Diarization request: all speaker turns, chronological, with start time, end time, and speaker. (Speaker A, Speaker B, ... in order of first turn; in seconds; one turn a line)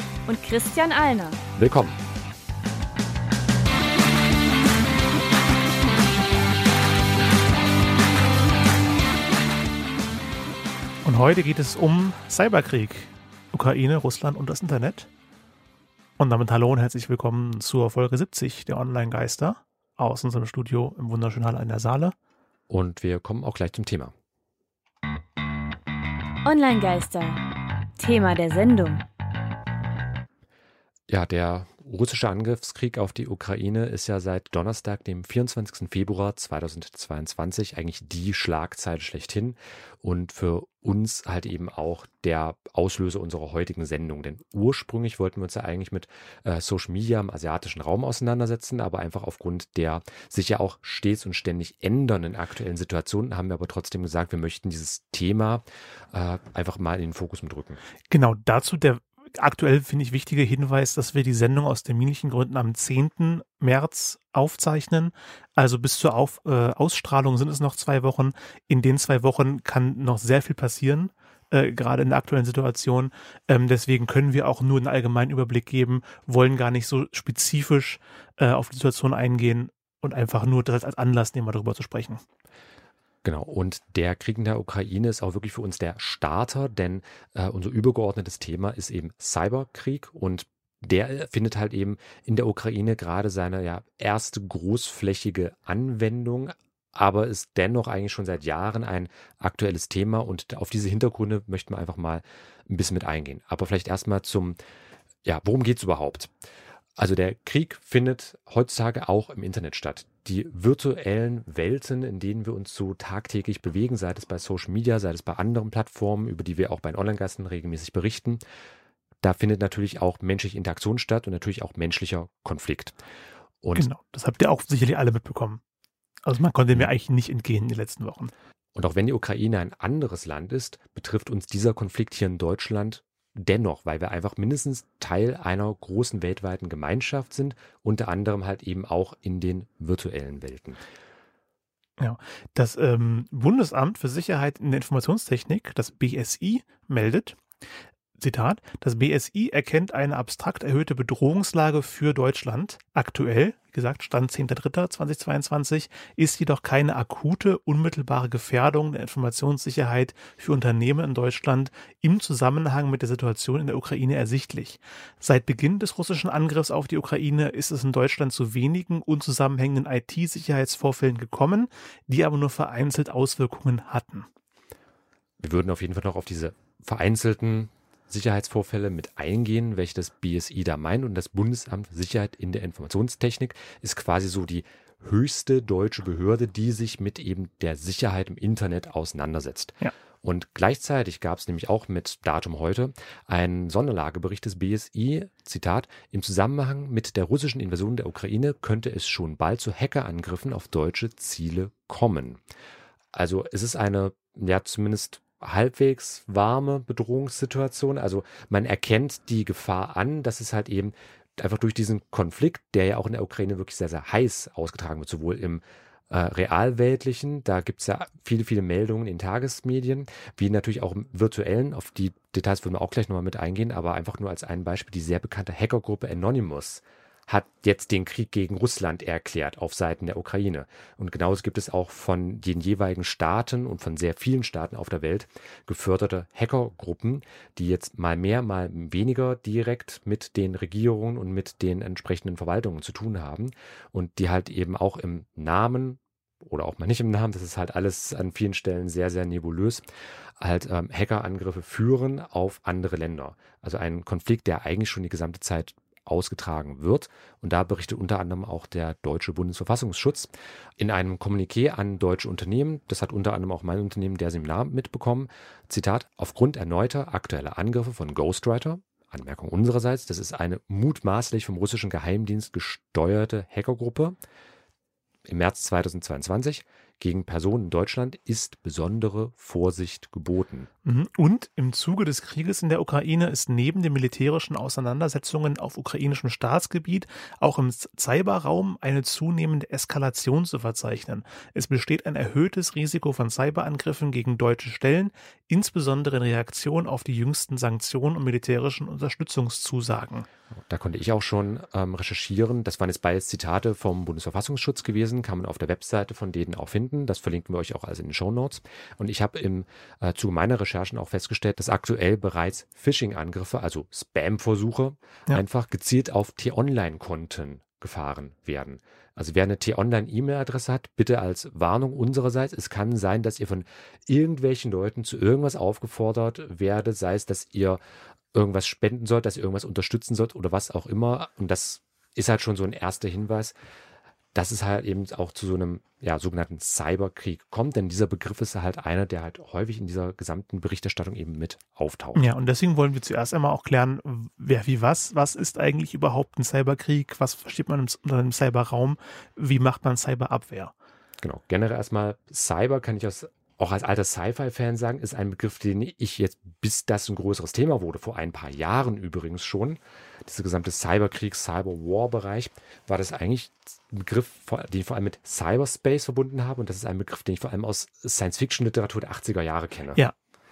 Speaker A: 0.2-1.4
Speaker B: 1.6-2.0
Speaker C: 11.0-15.1
Speaker C: 16.2-22.1
Speaker B: 22.7-24.1
Speaker A: 26.4-27.4
Speaker A: 28.0-29.0
Speaker B: 31.1-57.8
Speaker C: 58.1-82.2
Speaker B: 83.2-104.6
Speaker B: 105.2-106.3
Speaker B: 107.0-118.4
Speaker B: 119.2-123.0
Speaker B: 123.6-123.9
Speaker C: 123.8-125.6
Speaker C: 126.2-128.3
Speaker B: 128.7-140.8
Speaker C: 142.0-147.4
Speaker C: 148.2-174.3
Speaker B: 175.4-202.4
Speaker B: 203.1-249.8
Speaker B: 250.4-274.2
Speaker B: 275.3-280.7
Speaker C: 280.8-300.3
Speaker B: 300.7-327.8
Speaker B: 328.3-333.5
Speaker B: 334.3-342.2
Speaker C: 342.1-350.7
Speaker B: 351.2-370.0